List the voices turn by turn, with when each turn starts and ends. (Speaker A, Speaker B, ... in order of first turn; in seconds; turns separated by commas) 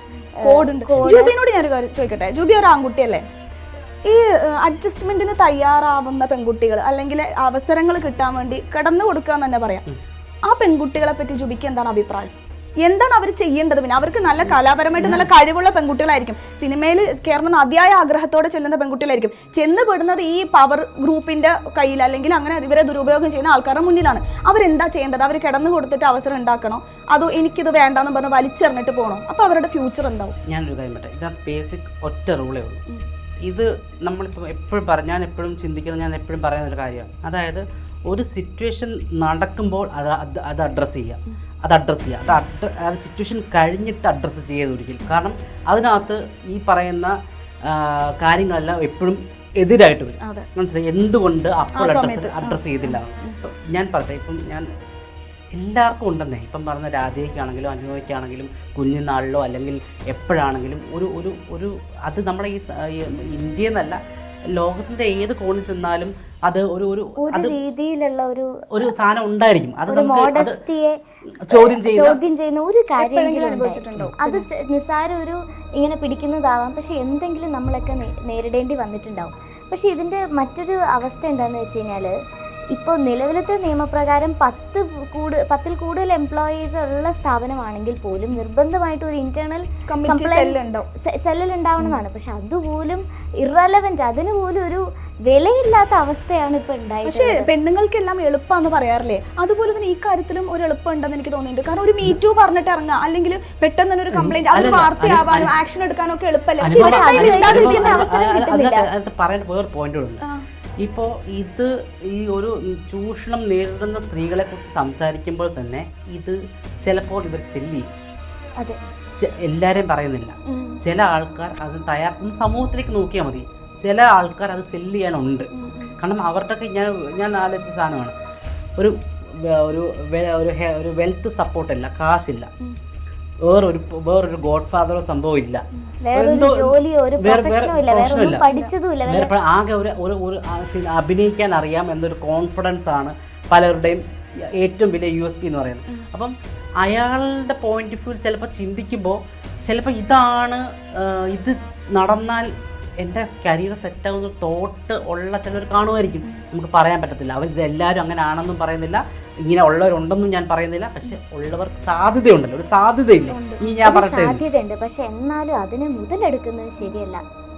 Speaker A: 0.4-1.4, Speaker B: 0.4-3.2, Speaker B: 4.0-9.8, Speaker B: 10.5-30.4, Speaker C: 15.0-15.3, Speaker C: 30.5-32.8, Speaker C: 33.5-47.1, Speaker C: 47.6-54.6, Speaker B: 50.2-50.5, Speaker B: 51.7-53.4, Speaker C: 55.5-64.0, Speaker C: 64.5-67.6, Speaker A: 67.2-68.9, Speaker C: 68.7-70.6, Speaker A: 69.9-71.0, Speaker C: 71.4-72.2, Speaker A: 71.5-82.1, Speaker B: 73.0-74.4, Speaker A: 82.7-97.5, Speaker B: 89.9-90.9, Speaker B: 97.0-108.1, Speaker C: 104.1-105.5, Speaker C: 106.6-110.2, Speaker A: 106.7-108.9, Speaker C: 110.8-117.8, Speaker C: 119.2-128.1, Speaker B: 120.5-120.8, Speaker B: 125.5-126.0, Speaker C: 128.8-132.5, Speaker C: 133.4-135.6, Speaker A: 136.0-139.3, Speaker C: 136.1-138.4, Speaker B: 138.5-138.7, Speaker C: 139.0-144.0, Speaker C: 144.6-152.5, Speaker C: 153.0-164.4, Speaker B: 163.3-163.6, Speaker A: 163.8-167.2